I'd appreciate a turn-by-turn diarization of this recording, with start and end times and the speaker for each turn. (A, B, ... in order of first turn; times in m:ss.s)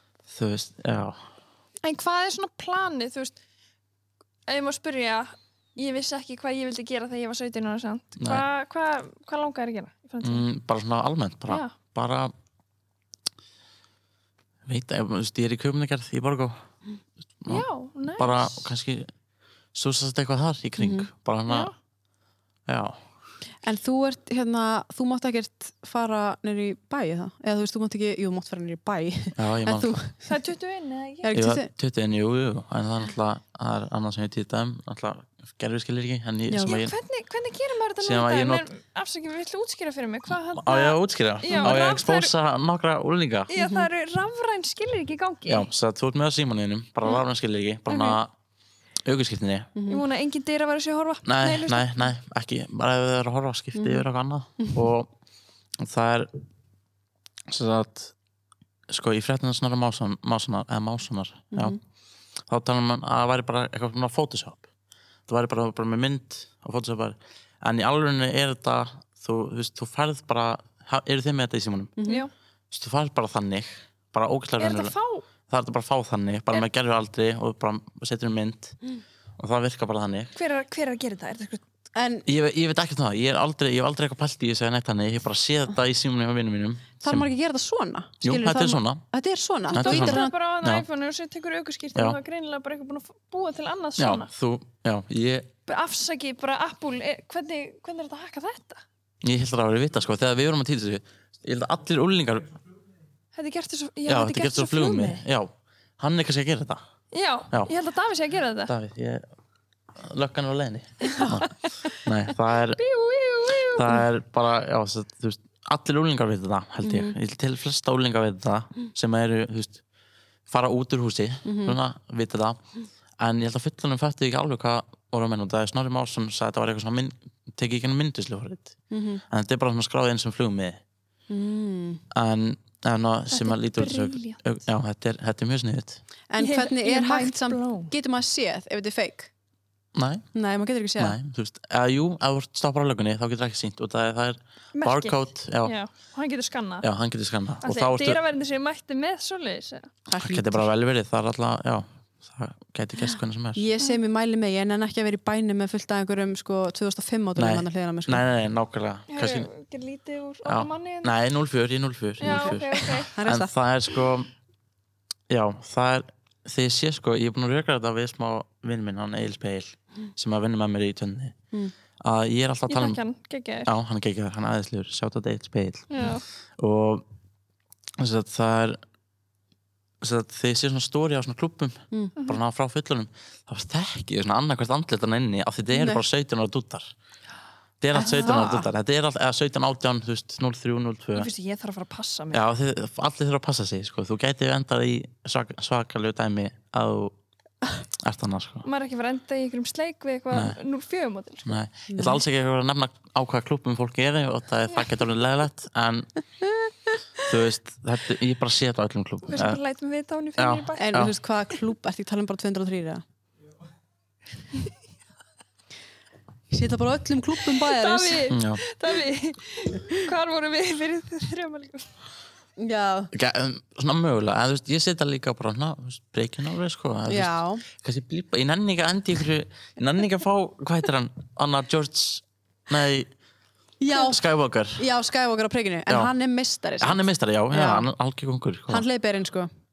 0:00.3-0:01.2 A
0:01.8-0:03.3 B
0:04.5-0:10.4 B
0:08.2-0:08.4 A
0:10.2-0:12.3 A
0:11.5-0:11.7 B
0:14.6-0:16.6 A
0:17.5-0:18.6 B
0:18.2-0:19.1 A
0:19.7-0:21.7 A
0:20.8-0:21.1 C
0:21.5-0:21.7 B
0:22.7-0:23.0 A
0:23.6-0:30.3 C
0:29.4-0:29.9 A
0:30.2-0:31.4 B
0:31.2-0:31.7 C
0:31.3-0:36.9 A
0:36.5-0:36.8 C
0:36.6-0:42.3 B
0:38.0-0:38.6 A
0:40.5-0:43.5 A
0:41.5-0:41.8 C
0:43.5-0:45.7 B
0:43.6-0:43.9 C
0:45.4-0:48.3 A
0:47.9-0:48.2 B
0:49.0-0:49.7 A
0:49.8-0:50.0 C
0:49.9-0:52.1 B
0:51.2-0:55.1 A
0:53.7-0:54.0 C
0:55.8-0:56.3 A
0:57.5-0:58.1 A
0:58.9-1:01.8 A
1:01.5-1:01.8 C
1:02.5-1:04.6 A
1:05.3-1:11.9 A
1:12.0-1:12.2 C
1:12.7-1:14.9 A
1:14.6-1:15.2 B
1:15.5-1:18.8 A
1:19.4-1:20.3 A
1:20.3-1:21.6 B
1:21.9-1:22.2 C
1:22.2-1:27.3 A
1:27.0-1:30.3 C
1:28.2-1:29.0 A
1:29.7-1:34.3 B
1:29.7-1:30.8 A
1:34.0-1:35.5 A
1:35.7-1:38.8 B
1:39.2-1:42.6 A
1:43.3-1:45.2 B
1:44.1-1:46.8 A
1:47.1-1:48.7 B
1:48.6-1:49.2 A
1:49.9-1:52.8 A
1:51.1-1:52.0 B
1:52.8-1:54.0 B
1:53.7-1:59.8 A
1:56.8-1:57.1 C
2:00.5-2:02.6 A
2:01.4-2:01.8 C
2:03.2-2:08.8 A
2:08.9-2:09.2 C
2:09.3-2:10.8 A
2:11.3-2:12.0 C
2:12.1-2:16.0 A
2:13.3-2:14.4 B
2:16.3-2:19.3 C
2:16.4-2:17.9 B
2:19.9-2:20.2 A
2:20.3-2:21.2 C
2:21.0-2:25.8 A
2:24.8-2:26.9 B
2:26.8-2:28.2 A
2:27.6-2:29.9 B
2:30.1-2:30.7 C
2:30.2-2:33.6 A
2:33.6-2:38.2 C
2:37.4-2:39.5 A
2:39.1-2:41.1 B
2:40.4-2:44.3 A
2:42.2-2:43.1 B
2:42.2-2:43.5 C
2:45.3-2:51.3 A
2:52.0-2:53.0 A
2:52.7-2:53.7 B
2:53.6-2:56.0 A
2:55.9-2:56.2 B
2:56.6-2:57.0 A
2:58.0-2:58.8 A
3:00.0-3:06.9 A
3:05.7-3:06.0 C
3:07.8-3:11.3 A
3:07.9-3:08.7 C
3:11.1-3:12.4 B
3:12.3-3:17.1 A
3:18.0-3:18.6 A
3:18.6-3:21.6 B
3:20.3-3:20.6 A
3:21.4-3:26.1 A
3:21.9-3:22.2 C
3:27.2-3:29.6 A
3:29.3-3:31.1 B
3:30.4-3:31.1 A
3:30.8-3:33.0 C
3:36.5-3:38.3 C
3:37.5-3:41.9 B
3:38.3-3:38.6 A
3:42.6-3:43.1 C
3:43.1-3:53.1 A
3:47.1-3:47.6 C
3:53.8-3:54.2 C
3:53.9-3:54.8 A
3:54.8-3:57.9 C
3:56.8-3:58.8 A
3:58.7-3:59.5 C